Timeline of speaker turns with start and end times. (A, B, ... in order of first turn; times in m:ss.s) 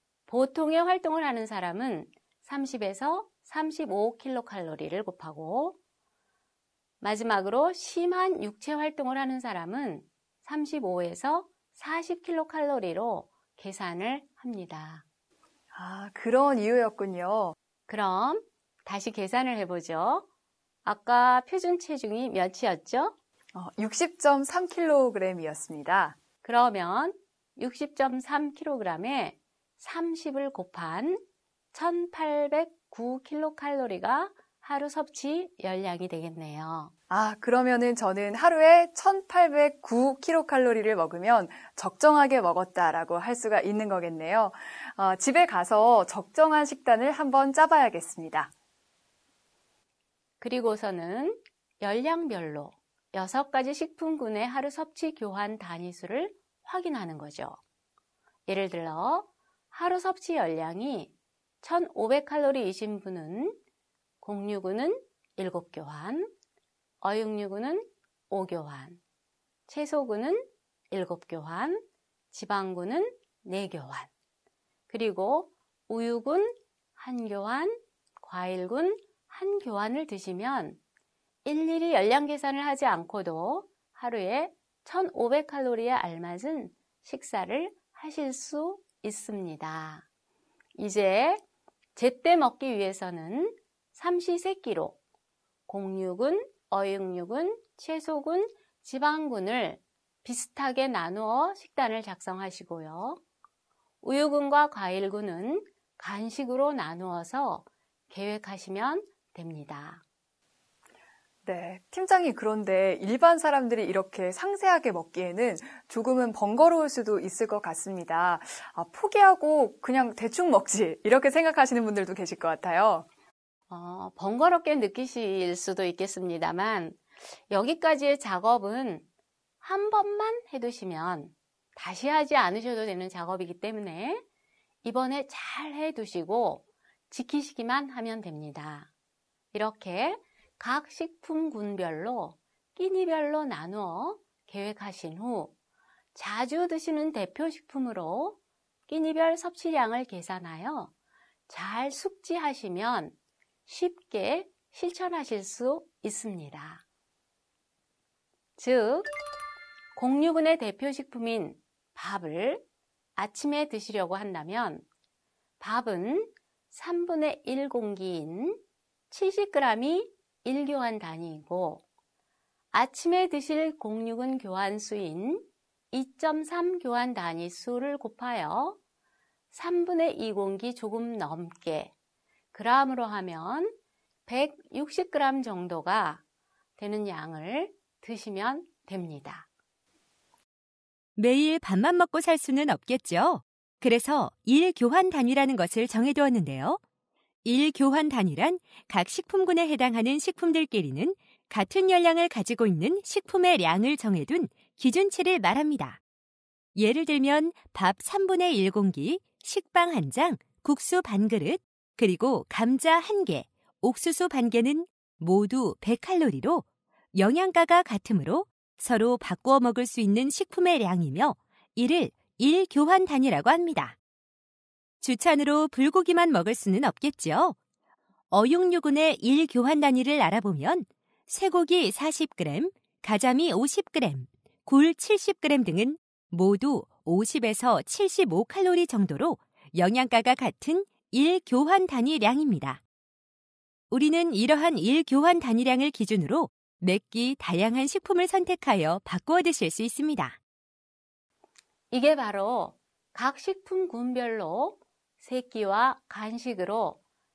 0:00.3-0:05.8 A
0:07.0-0:15.0 A
0:15.7-0:17.5 B
0:17.9-0:20.3 A
0:20.8-0:23.1 A
0:23.5-0:26.2 B
0:26.4-0:31.2 A
0:31.7-0:36.9 A
0:37.1-0:48.5 B
0:50.4-0:57.6 A
0:58.5-1:03.6 A
1:04.2-1:06.3 A
1:07.0-1:09.0 A
1:09.7-1:14.1 A
1:14.9-1:20.8 A
1:21.4-1:30.0 A
1:30.8-1:31.4 A
1:31.9-1:35.0 A
1:35.7-1:43.2 A
1:44.0-1:50.0 A
1:51.4-2:03.0 B
2:03.7-2:09.0 A
2:09.6-2:14.2 A
2:14.8-2:18.9 A
2:19.5-2:25.5 A
2:26.1-2:30.9 A
2:31.5-2:33.1 A
2:33.6-2:36.8 A
2:38.6-2:39.1 A
2:40.0-2:42.6 A
2:43.2-2:44.8 A
2:45.6-2:51.8 A
2:52.7-2:58.8 A
2:59.5-3:01.9 A
3:02.5-3:06.2 A
3:06.8-3:09.5 A
3:11.2-3:16.8 C
3:17.4-3:26.0 C
3:26.8-3:44.0 C
3:45.0-3:47.6 C
3:48.3-4:02.8 C
4:03.9-4:10.4 C
4:11.9-4:17.0 A